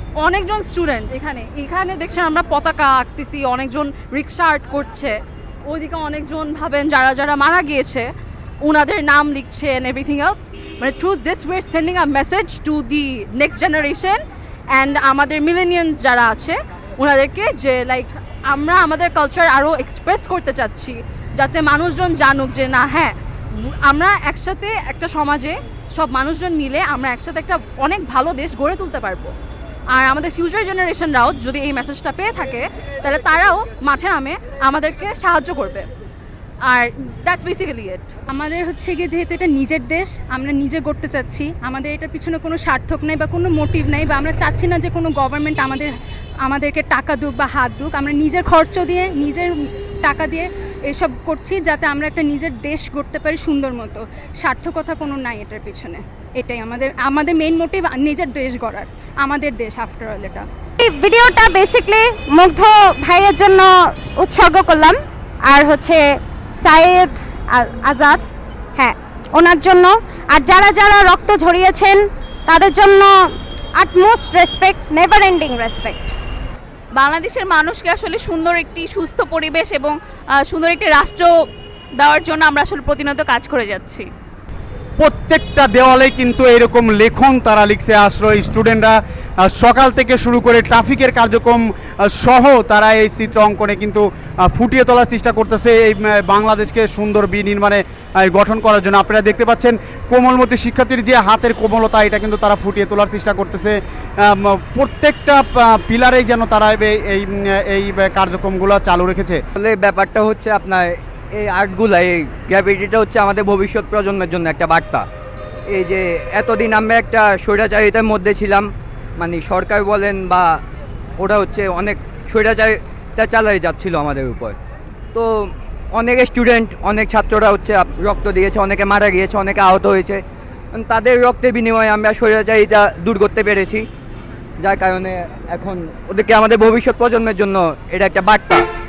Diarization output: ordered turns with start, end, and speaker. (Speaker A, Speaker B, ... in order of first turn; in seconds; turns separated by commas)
Speaker A: 0.2-8.1, Speaker A: 8.6-14.2, Speaker A: 14.7-29.3, Speaker A: 29.9-35.9, Speaker A: 36.7-38.1, Speaker B: 38.3-60.5, Speaker C: 60.8-65.0, Speaker C: 65.5-66.0, Speaker C: 66.6-68.2, Speaker C: 68.8-73.1, Speaker C: 73.8-76.1, Speaker D: 77.0-80.0, Speaker D: 80.5-81.3, Speaker D: 82.0-84.1, Speaker E: 85.0-109.4, Speaker F: 109.5-115.1, Speaker F: 115.7-120.6, Speaker F: 121.2-124.6, Speaker F: 125.1-133.9, Speaker F: 134.6-138.7